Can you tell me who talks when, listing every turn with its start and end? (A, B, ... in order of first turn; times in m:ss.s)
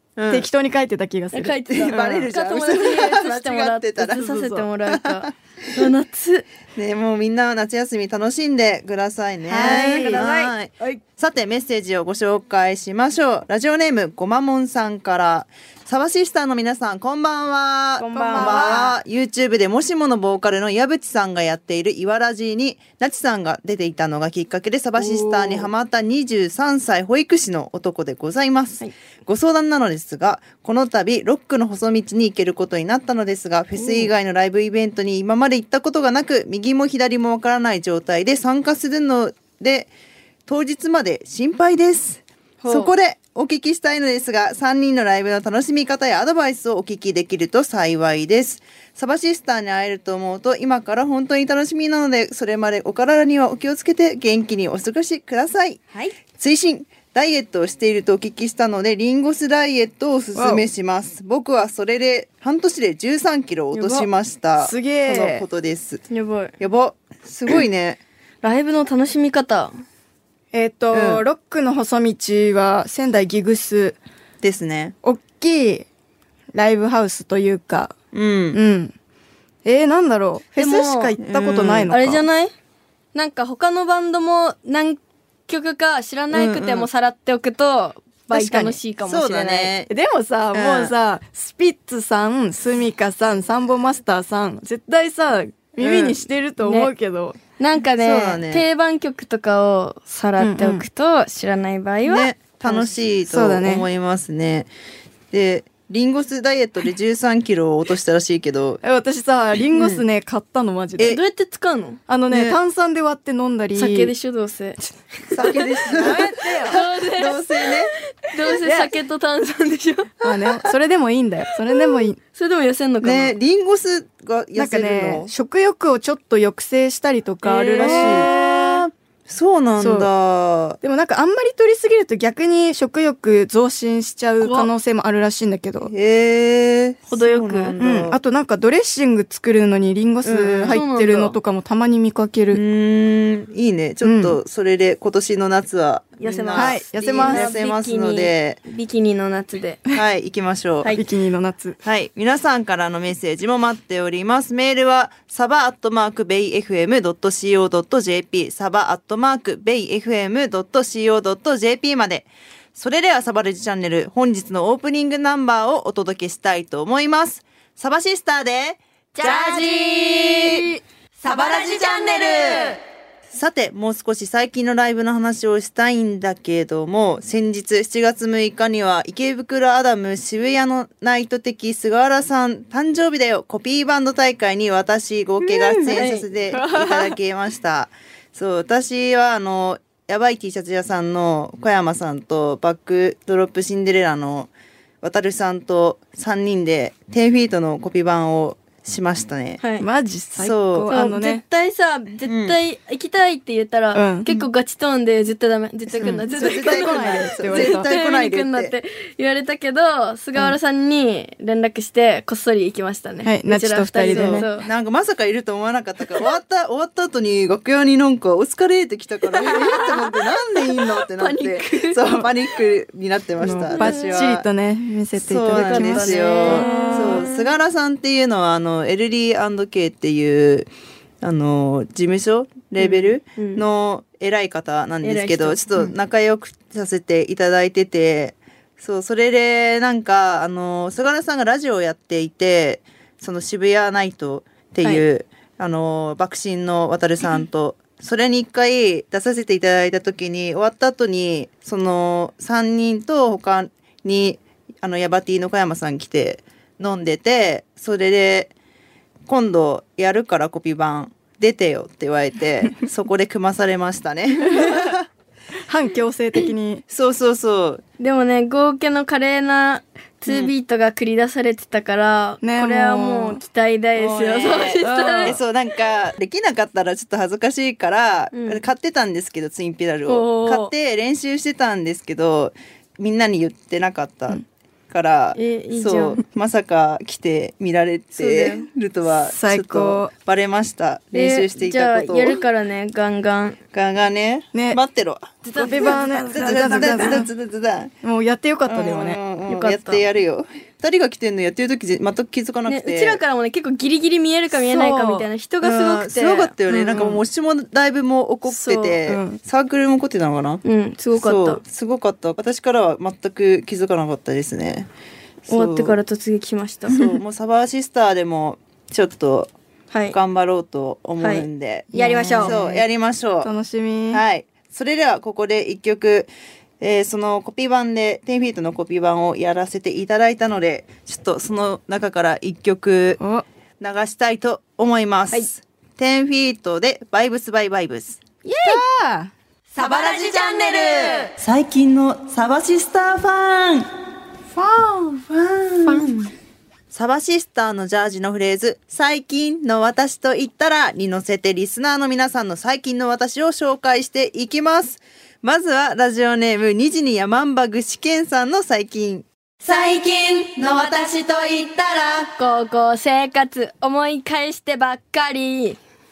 0:00.2-0:00.5 A
0:00.3-0:02.3 B
0:01.3-0:06.5 C
0:01.7-0:04.2 A
0:04.1-0:04.7 B
0:04.9-0:05.9 A
0:06.8-0:39.9 A
0:09.5-0:10.2 B
0:09.6-0:10.6 C
0:18.0-0:18.8 C
0:18.1-0:19.0 B
0:25.0-0:25.7 B
0:33.8-0:34.1 B
0:40.5-0:55.8 A
0:42.6-0:42.9 C
0:56.3-1:06.0 A
1:00.4-1:00.6 B
1:03.7-1:04.1 C
1:04.6-1:05.5 B
1:06.1-1:06.5 C
1:06.6-1:08.0 A
1:08.4-1:09.7 C
1:10.5-1:14.0 B
1:10.9-1:11.2 A
1:14.4-1:15.0 A
1:15.0-1:15.8 B
1:16.5-1:17.9 B
1:18.1-1:18.6 A
1:18.5-1:18.9 B
1:19.6-1:22.2 B
1:20.6-1:21.2 C
1:20.6-1:22.0 A
1:21.9-1:22.5 C
1:23.1-1:29.7 C
1:26.3-1:26.9 A
1:28.3-1:29.9 A
1:28.3-1:28.8 B
1:29.9-1:37.4 B
1:30.5-1:30.9 A
1:35.8-1:36.2 A
1:36.6-1:36.9 C
1:37.6-1:42.9 C
1:38.0-1:38.7 A
1:40.4-1:40.8 B
1:42.0-1:44.7 A
1:43.2-1:43.9 B
1:45.3-1:48.8 A
1:48.8-1:51.2 B
1:49.7-1:50.0 A
1:51.0-1:52.0 C
1:52.1-1:54.1 B
1:52.3-1:52.6 A
1:53.8-1:54.8 C
1:55.3-1:57.9 A
1:55.4-1:56.8 B
1:56.6-1:57.7 C
1:58.2-2:00.2 C
1:58.5-1:58.9 B
2:00.2-2:02.2 B
2:00.4-2:00.7 A
2:02.2-2:03.3 C
2:03.0-2:05.3 A
2:04.6-2:08.8 B
2:07.4-2:10.8 A
2:07.8-2:08.2 C
2:09.8-2:10.1 B
2:10.8-2:15.9 B
2:14.4-2:14.7 C
2:15.8-2:18.2 A
2:17.1-2:17.8 C
2:17.8-2:22.6 B
2:20.2-2:20.8 A
2:20.7-2:21.4 C
2:22.5-2:28.6 A
2:24.0-2:24.4 B
2:26.2-2:29.9 C
2:26.5-2:27.5 B
2:29.9-2:31.0 A
2:30.9-2:31.8 B
2:31.8-2:50.7 A
2:49.2-2:50.5 C
2:51.2-2:52.5 C
2:53.3-3:14.5 A
3:05.4-3:07.2 B
3:05.8-3:06.3 C
3:15.0-3:19.6 A
3:19.6-3:19.9 C
3:19.8-3:21.4 B
3:20.4-3:20.9 A
3:20.9-3:34.7 C
3:22.2-3:22.6 A
3:24.0-3:24.3 B
3:25.9-3:28.7 A
3:26.0-3:27.9 B
3:33.2-3:34.5 B
3:34.1-3:44.5 A
3:39.4-3:40.0 C
3:40.9-3:42.0 C
3:43.4-3:47.2 B
3:43.5-3:44.2 C
3:45.1-3:50.7 A
3:45.5-3:47.1 C
3:51.2-4:18.5 A
3:52.8-3:53.6 C
3:55.0-3:55.6 C
4:19.3-4:25.0 A
4:24.5-4:24.9 B
4:25.7-4:26.8 B
4:26.9-4:27.8 A
4:28.0-4:35.4 C
4:32.4-4:33.4 B
4:34.0-4:52.4 A
4:34.8-4:35.4 B
4:38.3-4:38.6 C
4:40.1-4:40.7 C
4:45.3-4:46.2 C
4:48.2-4:48.7 C
4:49.1-4:50.1 B
4:51.1-4:53.6 C
4:53.7-4:57.9 A
4:54.5-4:54.8 B
4:55.4-4:57.3 B
4:55.6-4:57.0 C
4:58.0-4:59.2 B
4:58.7-5:03.2 A
4:59.4-5:00.0 C
5:02.7-5:07.1 C
5:04.5-5:05.3 B
5:05.6-5:10.6 A
5:06.9-5:07.2 B
5:08.5-5:09.0 C
5:09.1-5:09.4 B
5:10.6-5:11.6 C
5:11.2-5:14.9 A
5:15.4-5:16.0 A
5:15.5-5:17.0 C
5:16.9-5:19.5 A
5:19.9-5:20.2 C
5:20.1-5:23.5 A
5:21.2-5:22.5 C
5:21.9-5:22.8 B
5:23.4-5:24.2 B
5:24.1-5:33.2 A
5:33.8-5:38.2 A
5:38.4-5:39.3 B
5:40.2-5:40.7 C
5:41.4-5:43.9 A
5:44.6-5:46.2 A
5:46.9-5:59.3 A
6:02.4-6:05.8 C